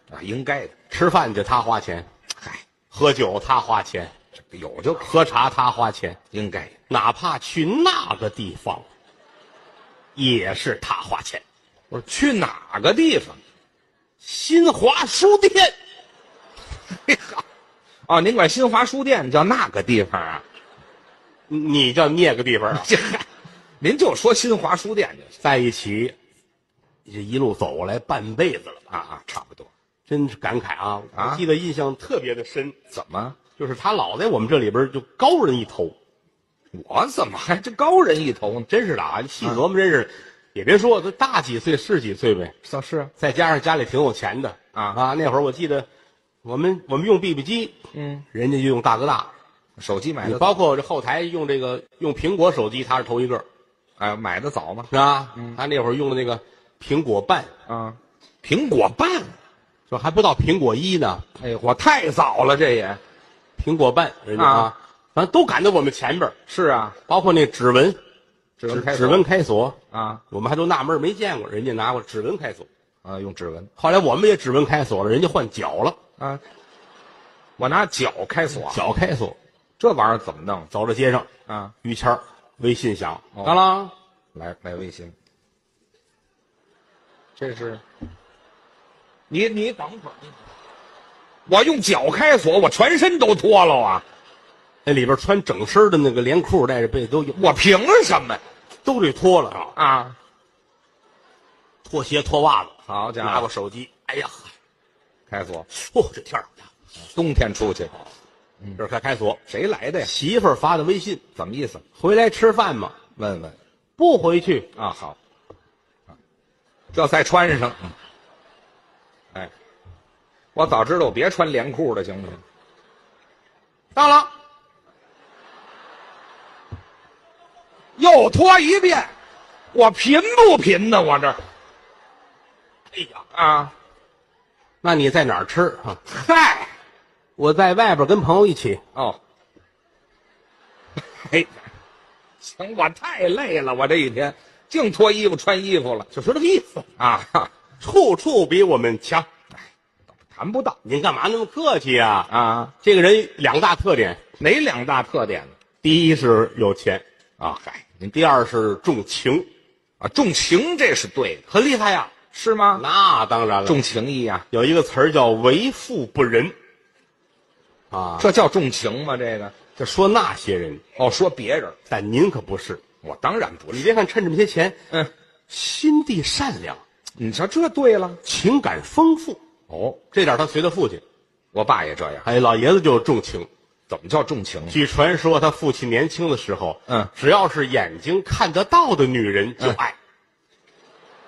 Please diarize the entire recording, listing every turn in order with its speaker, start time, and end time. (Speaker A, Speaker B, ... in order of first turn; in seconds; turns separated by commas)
Speaker A: 0.1-0.7, Speaker B: 0.9-2.1, Speaker B: 2.9-4.1, Speaker A: 4.5-5.1, Speaker B: 5.0-6.2, Speaker A: 6.3-6.8, Speaker B: 6.9-8.9, Speaker B: 10.2-11.4, Speaker A: 11.9-13.4, Speaker B: 14.2-15.8, Speaker A: 17.1-17.4, Speaker A: 18.1-20.4, Speaker B: 21.5-22.9, Speaker A: 22.8-23.2, Speaker A: 23.8-25.3, Speaker B: 25.4-26.1, Speaker B: 27.1-28.8, Speaker A: 28.9-29.7, Speaker B: 30.1-32.8, Speaker A: 31.1-31.4, Speaker A: 32.9-33.4, Speaker B: 33.6-36.0, Speaker A: 36.7-38.7, Speaker B: 38.7-42.5, Speaker A: 42.6-43.1, Speaker B: 43.2-45.9, Speaker B: 46.4-47.7, Speaker A: 47.9-48.2, Speaker B: 48.3-49.3, Speaker A: 49.8-50.5, Speaker B: 50.2-53.5, Speaker A: 54.0-55.6, Speaker B: 54.9-57.5, Speaker A: 57.7-59.3, Speaker B: 59.9-61.2, Speaker A: 61.4-63.0, Speaker B: 63.6-66.4, Speaker A: 64.4-64.7, Speaker A: 66.5-67.0, Speaker B: 67.1-68.0, Speaker A: 68.6-69.2, Speaker B: 68.7-69.8, Speaker A: 69.9-70.2, Speaker B: 70.3-72.7, Speaker A: 73.0-73.7, Speaker B: 73.8-76.0, Speaker A: 77.6-78.8, Speaker B: 78.7-79.4, Speaker A: 79.8-80.7, Speaker B: 80.7-81.3, Speaker A: 81.5-81.7, Speaker B: 81.8-83.9, Speaker A: 84.3-85.1, Speaker A: 87.4-87.8, Speaker A: 89.3-90.3, Speaker A: 91.5-94.0, Speaker B: 94.8-97.5, Speaker A: 97.4-98.4, Speaker B: 98.8-99.8, Speaker A: 99.8-100.2, Speaker B: 101.8-104.5, Speaker A: 102.9-103.5, Speaker A: 105.3-105.7, Speaker B: 105.7-106.5, Speaker A: 107.1-108.0, Speaker B: 108.8-109.4, Speaker A: 109.5-110.1, Speaker B: 110.0-111.2, Speaker A: 111.4-111.8, Speaker B: 112.0-113.0, Speaker A: 113.2-113.6, Speaker B: 114.0-114.7, Speaker A: 114.8-115.2, Speaker A: 116.9-117.9, Speaker A: 120.5-122.4, Speaker B: 124.0-124.3, Speaker A: 128.0-129.1, Speaker A: 129.7-131.4, Speaker B: 132.9-133.2, Speaker A: 133.3-133.7, Speaker B: 134.8-136.0, Speaker A: 136.1-136.7, Speaker B: 137.4-138.8, Speaker A: 141.2-141.6, Speaker A: 142.4-147.5, Speaker B: 147.8-149.3, Speaker A: 150.2-150.8, Speaker B: 150.8-152.3, Speaker A: 152.3-152.7, Speaker B: 152.8-154.2, Speaker A: 154.4-155.5, Speaker B: 155.8-157.0, Speaker A: 157.4-158.2, Speaker B: 158.1-159.5, Speaker A: 160.0-161.4, Speaker B: 161.5-162.1, Speaker A: 162.3-162.8, Speaker B: 162.8-163.8, Speaker A: 163.7-164.4, Speaker B: 164.5-166.6, Speaker B: 167.9-168.3, Speaker A: 168.2-169.5, Speaker B: 169.8-170.8, Speaker A: 171.0-171.8, Speaker B: 171.9-172.8, Speaker A: 173.0-173.9, Speaker B: 173.7-174.8, Speaker B: 175.5-176.8, Speaker A: 177.2-178.2, Speaker B: 178.2-179.4, Speaker A: 179.7-180.0, Speaker B: 180.1-181.0, Speaker A: 181.5-182.3, Speaker B: 182.2-183.5, Speaker A: 183.9-184.8, Speaker B: 184.7-190.0